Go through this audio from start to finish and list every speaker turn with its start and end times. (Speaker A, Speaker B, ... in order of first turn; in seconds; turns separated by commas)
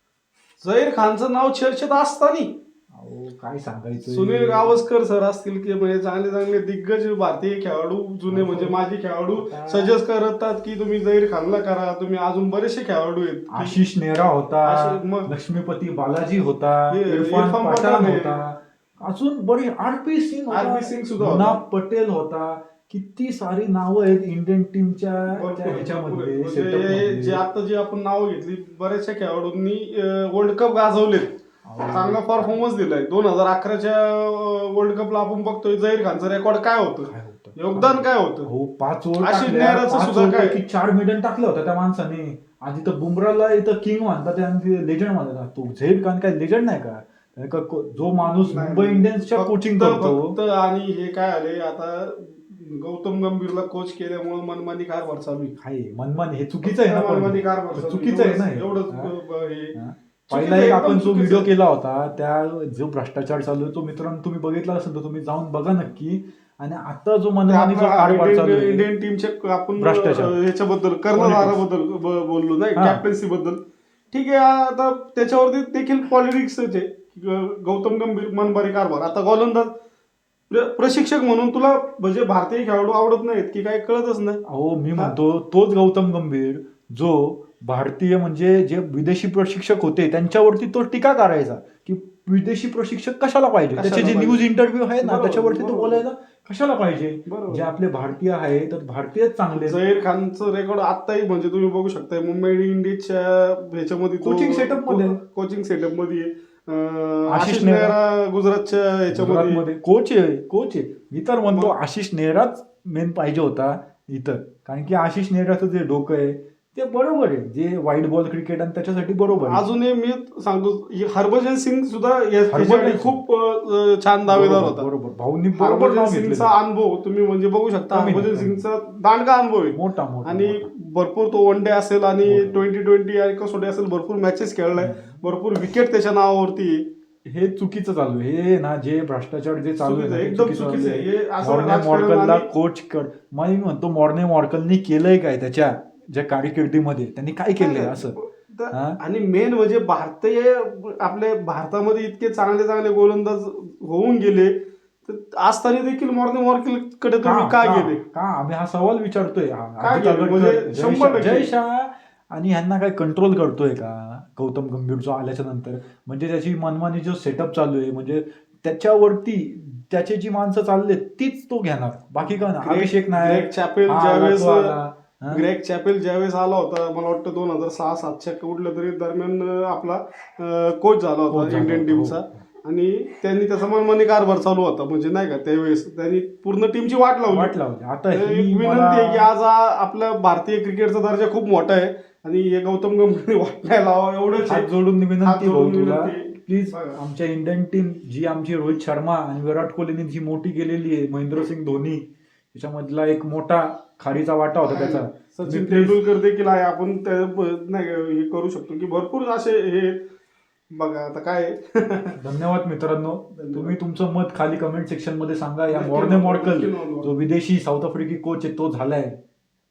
Speaker A: 0.6-2.5, Speaker B: 2.9-4.8, Speaker A: 4.0-13.8, Speaker B: 8.3-8.8, Speaker B: 9.4-9.9, Speaker B: 13.5-27.4, Speaker A: 14.6-15.3, Speaker A: 16.9-18.3, Speaker A: 20.5-21.6, Speaker A: 25.3-31.3, Speaker B: 31.6-32.5, Speaker A: 31.9-38.5, Speaker B: 37.0-50.4, Speaker A: 39.2-40.6, Speaker A: 48.3-55.5, Speaker B: 55.5-59.1, Speaker A: 56.6-59.8, Speaker B: 59.7-68.8, Speaker A: 60.3-61.5, Speaker A: 67.5-73.6, Speaker B: 69.8-70.4, Speaker B: 71.1-71.6, Speaker B: 72.8-73.0, Speaker A: 74.1-79.7, Speaker A: 80.5-84.4, Speaker B: 84.5-99.8, Speaker A: 93.8-94.4, Speaker A: 95.0-96.0, Speaker A: 97.3-97.7, Speaker A: 99.5-109.6, Speaker B: 104.2-105.2, Speaker B: 107.3-107.9, Speaker B: 109.1-119.7, Speaker A: 119.4-124.9, Speaker B: 122.5-123.2, Speaker B: 124.3-126.5, Speaker A: 125.6-136.9, Speaker B: 127.9-128.6, Speaker B: 129.7-130.7, Speaker B: 132.2-132.7, Speaker B: 134.8-135.2, Speaker B: 137.3-148.2, Speaker A: 139.8-142.5, Speaker A: 147.6-158.0, Speaker B: 148.7-149.0, Speaker B: 157.2-175.4, Speaker A: 159.8-161.5, Speaker A: 172.2-174.7, Speaker A: 175.3-187.5, Speaker B: 181.3-182.4, Speaker B: 187.3-189.3, Speaker A: 188.1-194.7, Speaker B: 194.4-206.0, Speaker A: 195.2-197.0, Speaker A: 204.7-210.0, Speaker A: 210.7-212.2, Speaker B: 212.2-219.2, Speaker A: 213.4-213.8, Speaker A: 215.7-217.1